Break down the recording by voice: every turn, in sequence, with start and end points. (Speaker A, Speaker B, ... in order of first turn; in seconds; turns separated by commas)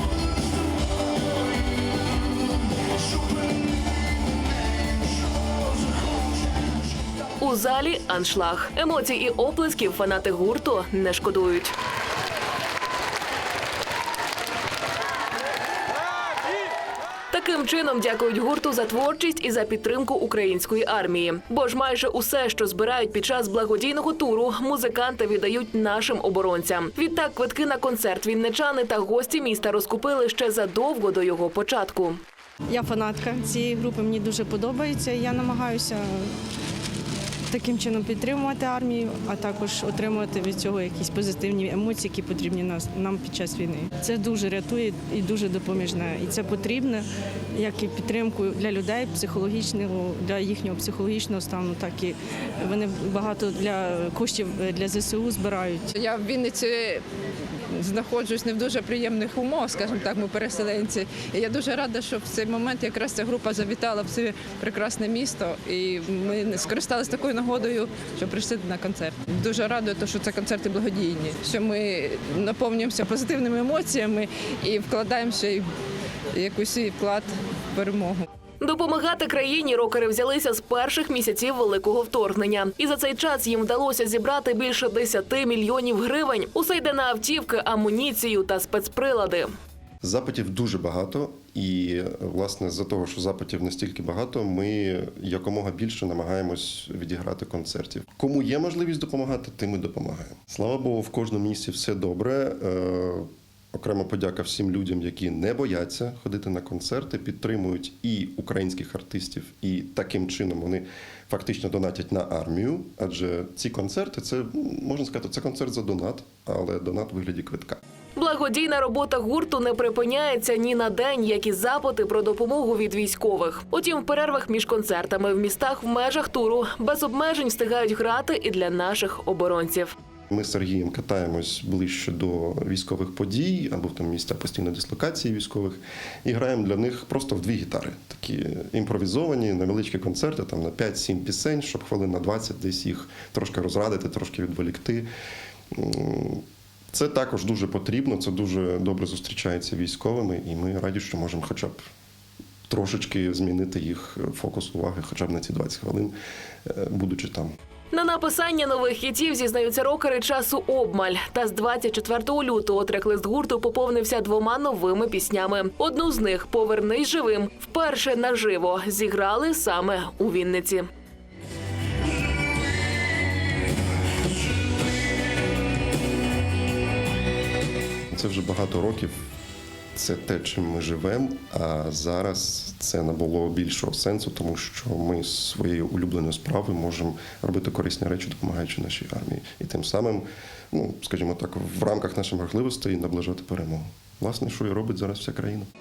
Speaker A: 7.4-11.7, Speaker A: 17.3-32.2, Speaker B: 32.7-36.3, Speaker B: 37.5-55.9, Speaker C: 55.9-57.0, Speaker C: 57.7-75.6, Speaker C: 76.3-78.3, Speaker A: 78.6-89.5, Speaker D: 90.0-117.8, Speaker A: 118.2-129.9, Speaker D: 130.3-145.1, Speaker D: 145.7-151.8, Speaker D: 152.7-156.1, Speaker D: 156.7-157.5, Speaker A: 157.9-170.8, Speaker D: 178.1-179.1, Speaker D: 179.9-195.7